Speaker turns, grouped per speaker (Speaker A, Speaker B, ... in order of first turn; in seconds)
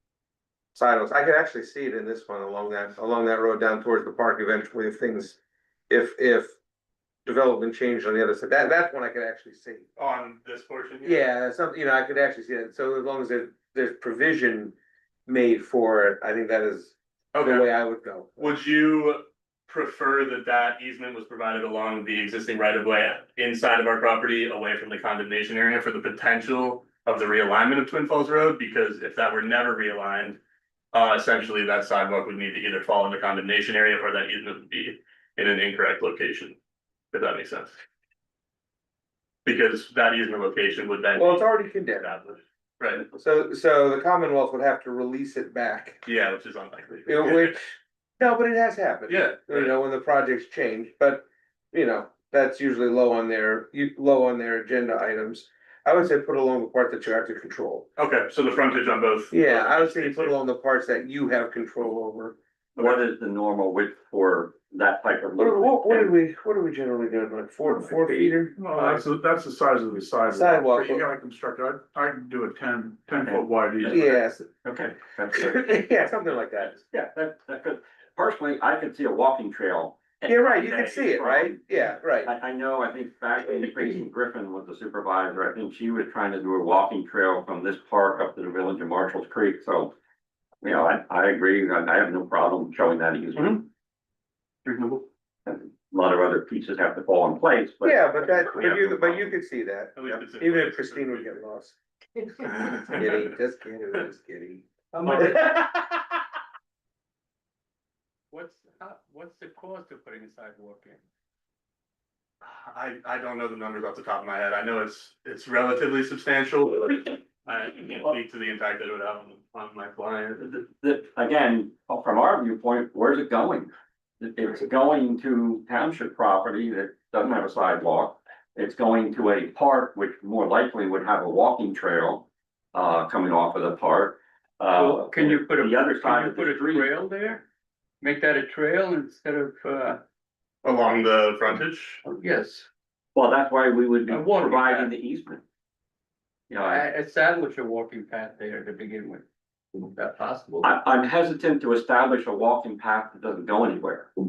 Speaker A: 0.7-6.5, 7.2-9.9, 11.0-14.8, 15.3-18.6, 41.1-42.2, 43.1-46.0, 47.0-57.9, 59.3-62.4, 65.3-68.6, 70.3-71.0, 73.9-74.5, 75.3-76.8, 80.2-82.3, 97.8-106.0
Speaker B: 9.9-11.2, 17.3-17.6, 18.4-30.4, 30.9-36.6, 37.1-37.8, 39.4-43.1, 46.0-47.6, 49.1-49.7, 58.0-60.3, 62.8-63.0, 100.0-101.3, 102.5-103.3, 112.4-120.5, 140.6-142.0
Speaker C: 62.8-66.1, 74.6-75.3, 76.9-81.5, 82.2-89.9, 90.6-93.6, 95.5-97.9, 98.4-99.1, 120.4-136.8, 143.1-145.4, 146.5-146.8, 150.6-154.1
Speaker D: 68.6-74.2
Speaker E: 105.0-105.4, 108.3-111.0, 134.7-137.4, 138.0-140.0, 142.0-142.7, 144.1-144.9, 146.6-149.2, 149.7-150.8